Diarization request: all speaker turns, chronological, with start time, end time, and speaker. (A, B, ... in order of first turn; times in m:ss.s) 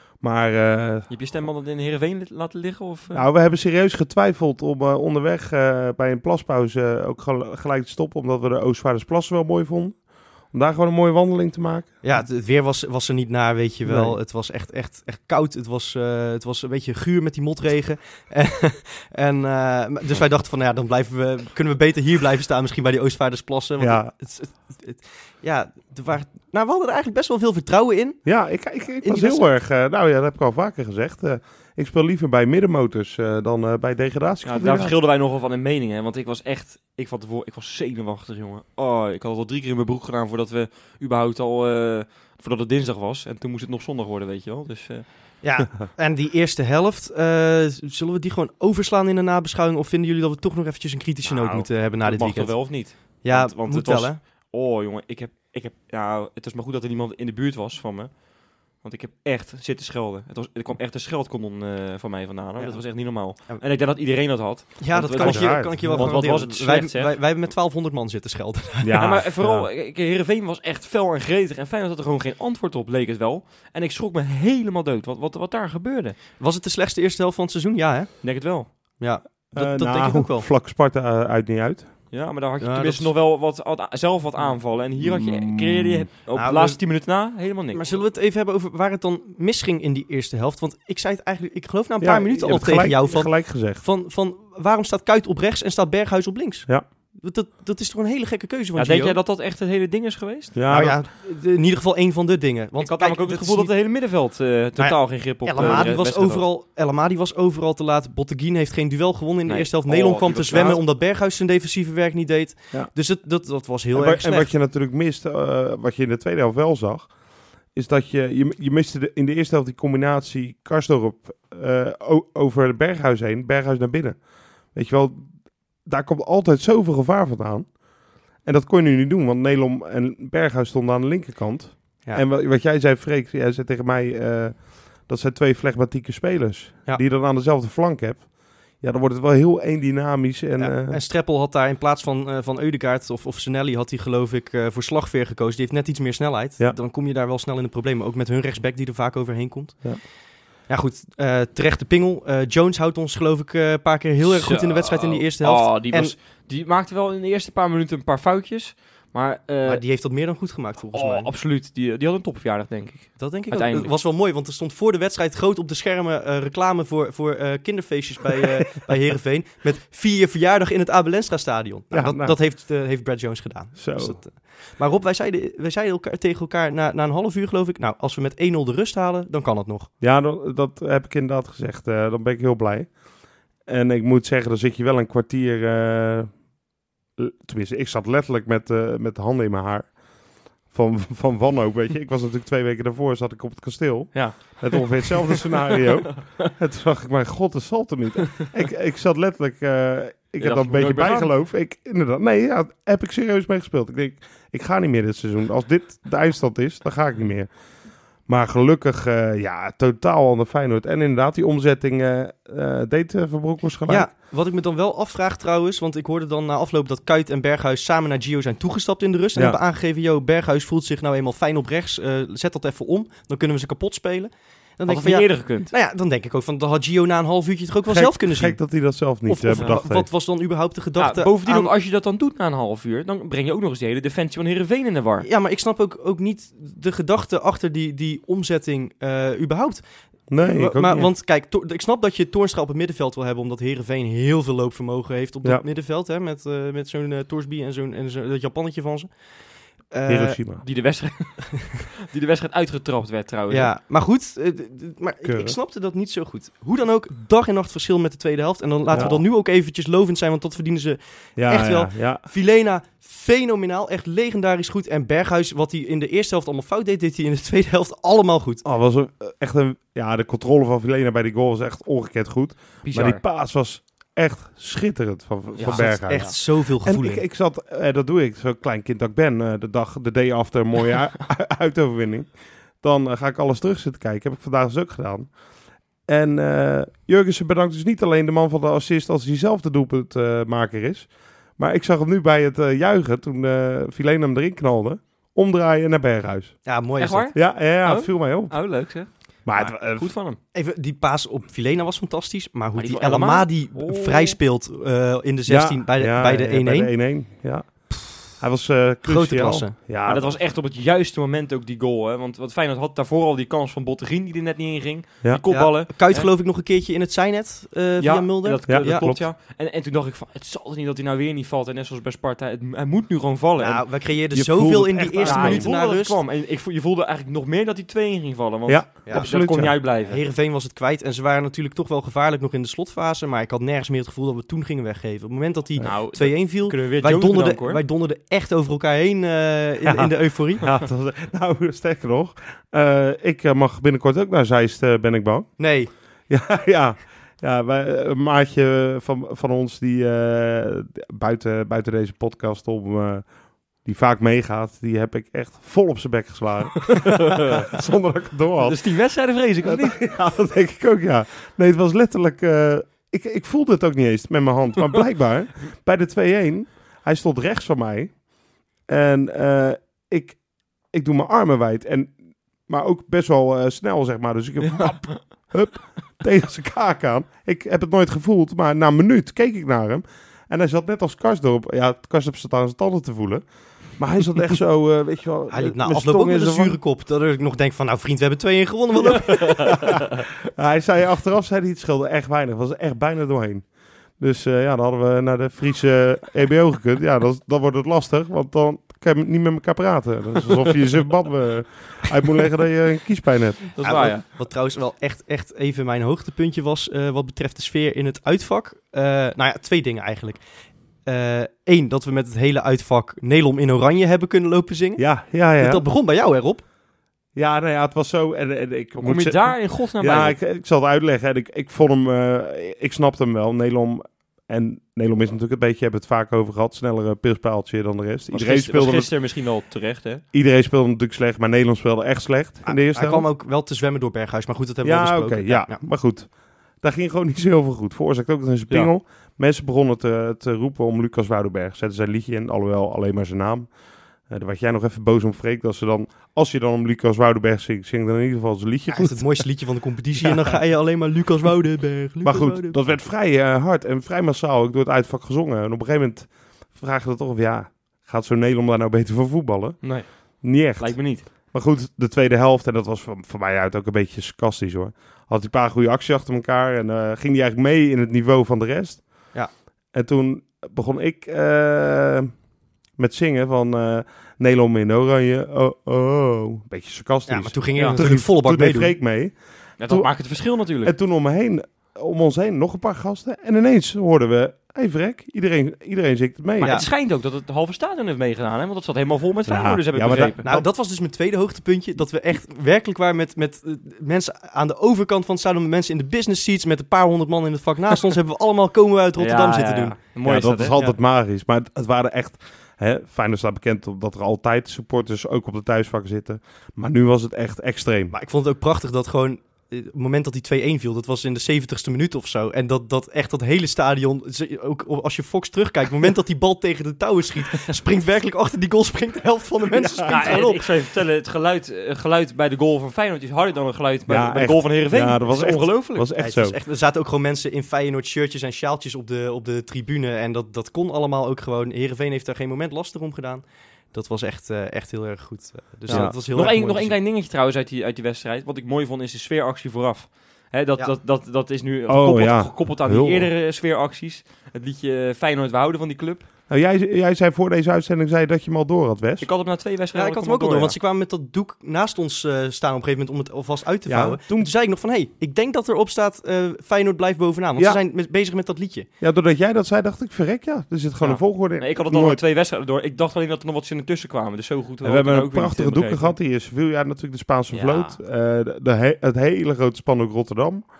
0:00.2-0:01.1 A
0:01.1-0:03.2 B
0:03.1-0:11.9 A
0:12.0-0:28.2 C
0:13.8-0:14.2 A
0:23.8-0:24.1 A
0:28.2-0:34.9 A
0:29.0-0:29.4 C
0:34.4-0:45.1 B
0:45.4-0:54.2 C
0:51.2-1:07.1 B
1:02.6-1:03.6 C
1:04.8-1:09.1 C
1:05.1-1:06.3 A
1:08.8-1:09.7 A
1:09.0-1:16.2 B
1:16.4-1:20.5 C
1:18.2-1:18.7 B
1:19.5-1:21.9 A
1:22.1-1:28.0 B
1:22.6-1:23.1 C
1:25.0-1:26.1 A
1:26.3-1:26.8 C
1:27.7-1:39.2 C
1:32.0-1:33.8 A
1:38.8-1:40.6 B
1:40.5-1:41.0 A
1:40.7-1:43.7 C
1:42.8-1:46.4 B
1:44.8-1:54.5 C
1:45.6-1:45.9 A
1:49.5-1:50.8 B
1:53.9-1:57.1 A
1:57.7-2:05.3 A
2:05.8-2:07.8 A
2:08.4-2:21.0 A
2:20.6-2:30.0 C
2:30.7-2:36.1 C
2:34.2-2:39.8 B
2:39.6-2:41.3 C
2:40.9-2:43.9 B
2:43.2-2:59.9 C
2:51.9-2:52.4 A
2:53.8-2:54.2 A
3:00.0-3:03.0 A
3:03.6-3:06.4 A
3:07.2-3:10.0 A
3:10.6-3:27.5 A
3:14.1-3:16.5 B
3:20.4-3:21.3 B
3:28.2-3:34.1 A
3:33.9-3:48.6 C
3:44.9-3:45.7 B
3:47.9-3:50.1 A
3:49.3-3:51.7 C
3:51.0-3:55.3 B
3:55.2-3:59.8 C
4:00.3-4:01.1 A
4:00.4-4:09.1 C
4:09.9-4:10.5 C
4:10.1-4:10.6 A
4:10.6-4:13.7 B
4:13.5-4:28.6 C
4:15.2-4:15.6 A
4:18.9-4:19.2 A
4:21.4-4:22.2 A
4:28.6-4:45.4 A
4:32.8-4:33.2 B
4:35.6-4:36.4 B
4:35.6-4:37.2 C
4:46.1-4:56.6 A
4:56.6-4:57.3 C
4:57.0-5:00.4 B
4:57.3-4:58.6 A
4:59.4-5:00.1 A
5:00.5-5:06.9 C
5:02.8-5:04.4 B
5:05.5-5:10.4 A
5:07.9-5:08.2 C
5:09.0-5:09.7 C
5:10.0-5:16.3 B
5:15.5-5:19.1 C
5:18.0-5:23.8 B
5:18.7-5:19.2 A
5:23.6-5:26.2 C
5:24.3-5:25.7 A
5:25.2-5:30.2 B
5:28.7-5:29.8 A
5:29.0-5:40.7 C
5:35.8-5:37.8 B
5:39.8-5:45.6 A
5:45.6-5:45.9 C
5:46.3-5:53.2 A
5:53.8-5:58.8 A
5:56.9-5:57.7 B
5:58.6-6:00.0 B
5:59.6-6:08.2 A
6:08.9-6:12.1 A
6:12.6-6:26.8 A
6:25.5-6:30.0 C
6:29.7-6:33.7 A
6:34.2-6:43.7 A
6:43.7-6:44.2 B
6:43.8-6:50.4 C
6:51.0-6:56.6 C
6:55.0-6:55.8 A
6:57.3-7:09.1 A
6:59.0-7:00.4 B
7:08.3-7:10.2 B
7:10.3-7:13.3 A
7:12.6-7:15.8 C
7:14.8-7:23.7 A
7:24.3-7:29.5 A
7:28.9-7:32.8 C
7:32.2-7:49.3 A
7:39.8-7:41.2 B
7:49.9-7:52.3 A
7:53.0-8:00.1 A
7:57.3-7:58.9 C
7:57.7-7:58.0 B
7:59.8-8:00.9 B
8:00.8-8:06.8 A
8:06.6-8:10.6 B
8:06.6-8:06.9 C
8:09.5-8:10.6 A
8:10.4-8:20.0 C
8:19.2-8:20.8 B
8:20.2-8:28.1 A
8:28.1-8:40.7 C
8:39.7-8:40.4 A
8:40.0-8:46.1 B
8:44.1-8:46.6 A
8:46.1-8:56.9 C
8:55.9-8:56.2 A
8:55.9-9:06.3 B
9:01.9-9:03.3 A
9:06.5-9:09.3 A
9:09.2-9:10.8 B
9:09.9-9:18.9 C
9:13.9-9:14.5 A
9:19.0-9:22.2 A
9:21.0-9:26.1 B
9:24.8-9:30.6 A
9:27.5-9:28.0 B